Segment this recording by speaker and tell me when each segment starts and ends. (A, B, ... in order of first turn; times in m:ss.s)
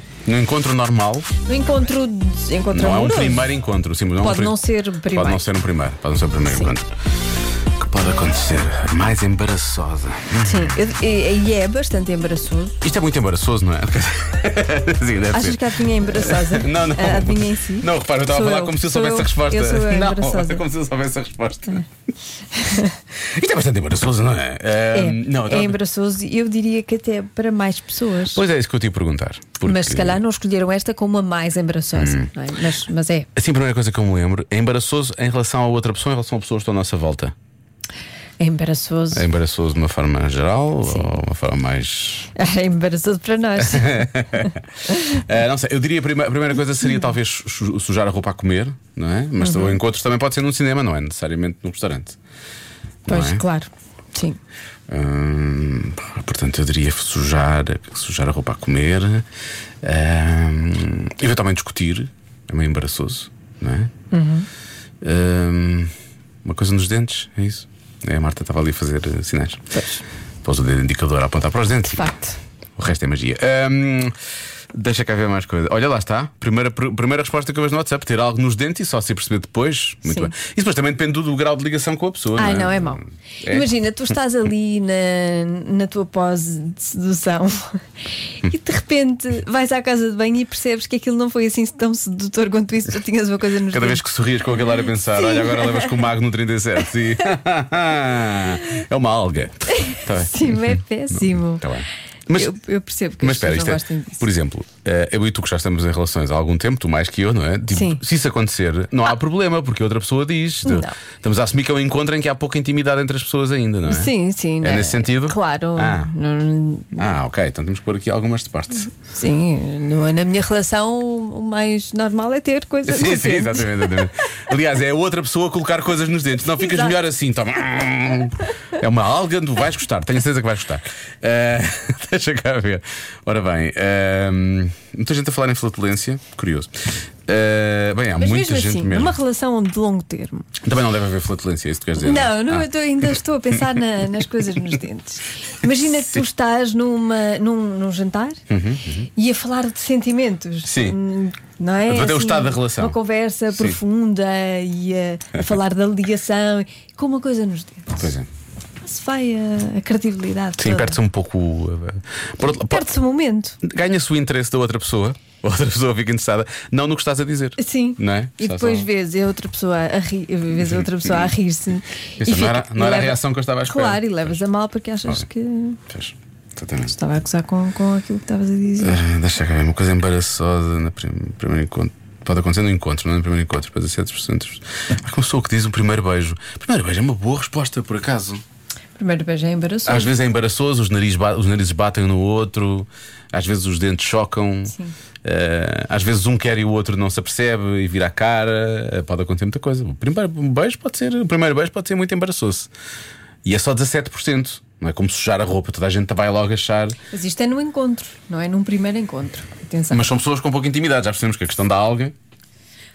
0:00.3-0:01.4 A
0:01.5-0:03.4 B
0:02.7-0:04.6 A
0:04.2-0:05.4 B
0:05.1-0:07.0 A
0:07.8-0:10.8 A
0:10.4-0:12.8 B
0:12.8-0:21.8 A
0:15.3-0:20.6 B
0:22.5-0:23.0 B
0:23.2-0:25.8 A
0:24.9-0:28.4 B
0:28.3-0:30.2 A
0:29.6-0:33.3 B
0:32.0-0:32.3 A
0:33.4-0:37.4 A
0:38.4-0:39.2 B
0:39.1-0:42.3 A
0:42.4-0:45.2 B
0:43.6-0:52.2 A
0:49.4-0:49.8 B
0:53.1-0:53.4 A
0:53.1-0:54.4 B
0:54.9-0:59.3 A
0:59.8-1:03.9 A
1:04.1-1:04.5 B
1:05.0-1:05.9 A
1:06.4-1:09.6 A
1:09.7-1:10.0 B
1:10.4-1:12.1 A
1:11.9-1:12.4 B
1:12.8-1:14.2 A
1:14.7-1:23.7 A
1:20.0-1:20.3 B
1:22.4-1:27.8 B
1:28.4-1:34.0 B
1:33.7-1:42.5 A
1:35.2-1:36.0 B
1:39.8-1:41.7 B
1:42.3-1:44.2 B
1:43.2-1:56.1 A
1:47.7-1:48.0 B
1:50.6-1:50.9 B
1:53.9-1:57.0 B
1:57.0-1:58.9 A
1:59.1-2:04.0 B
2:02.8-2:16.7 A
2:06.6-2:07.0 B
2:17.3-2:19.2 A
2:18.2-2:20.5 B
2:20.6-2:22.7 A
2:22.0-2:28.4 B
2:28.5-2:29.1 A
2:29.2-2:38.0 B
2:30.6-2:31.0 A
2:31.9-2:33.0 A
2:33.5-2:33.8 A
2:38.0-2:38.3 A
2:38.8-2:41.0 B
2:40.6-2:42.9 A
2:42.7-2:43.6 B
2:43.6-2:48.9 A
2:47.6-2:55.8 B
2:50.6-2:51.3 A
2:52.2-2:54.4 A
2:55.9-2:56.9 A
2:56.8-2:59.0 B
2:58.8-3:08.4 A
3:09.0-3:10.1 B
3:09.9-3:22.7 A
3:23.4-3:27.0 A
3:27.1-3:30.0 B
3:29.9-3:32.2 A